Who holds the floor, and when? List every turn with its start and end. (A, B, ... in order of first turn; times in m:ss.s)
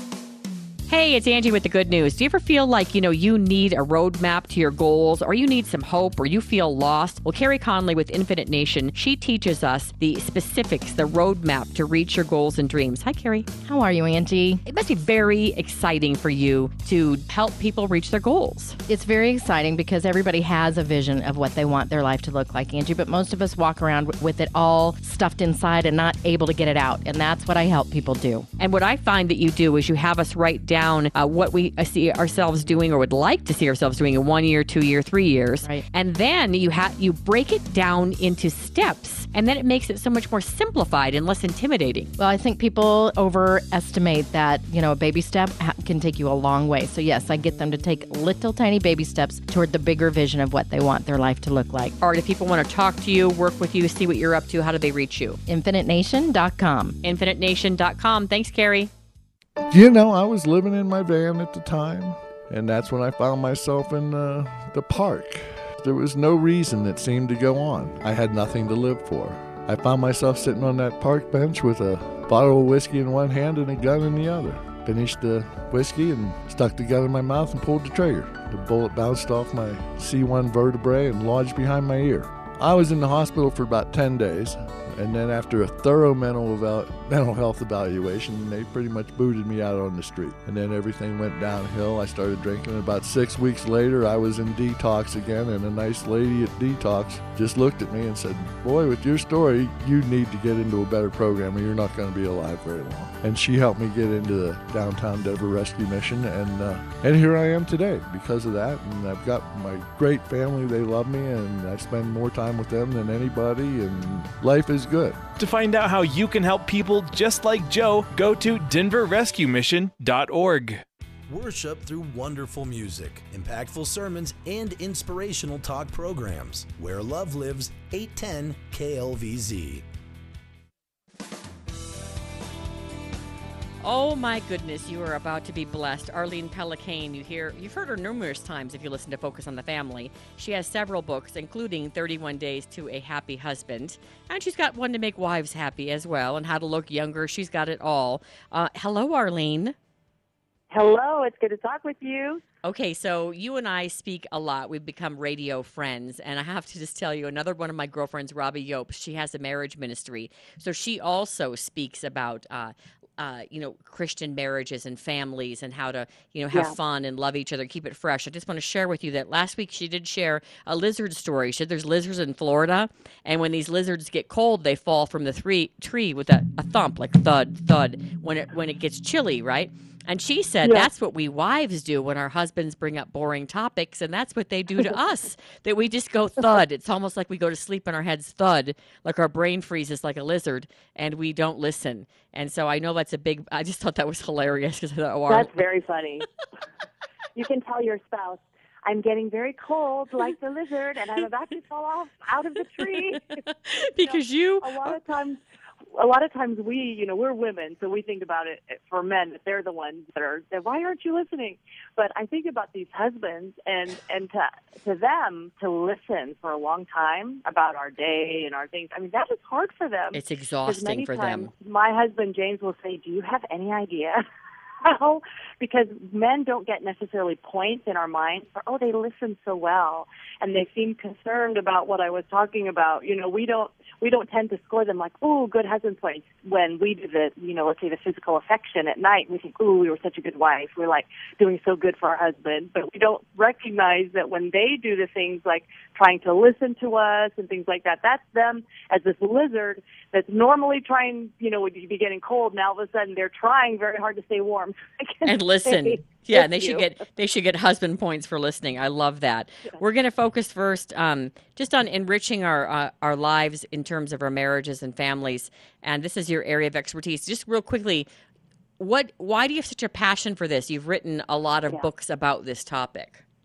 0:00.9-0:13.5 A
0:13.6-0:14.6 B
0:14.6-0:18.8 A
0:18.9-0:28.5 B
0:28.6-0:42.1 A
0:42.2-0:51.9 B
0:52.0-0:55.4 A
0:55.5-0:57.0 B
0:57.0-0:58.9 A
0:59.7-1:55.2 C
1:55.4-2:00.8 D
2:01.3-2:09.8 E
2:13.8-2:29.8 A
2:30.7-2:32.4 F
2:32.6-3:15.6 A
3:00.6-3:00.9 F
3:15.3-3:16.2 F
3:17.3-3:23.4 F
3:22.8-3:25.0 A
3:24.0-3:25.4 F
3:25.9-3:44.2 F
3:40.1-3:41.5 A
3:44.8-4:16.9 F
4:15.2-4:28.1 A
4:28.8-4:33.2 A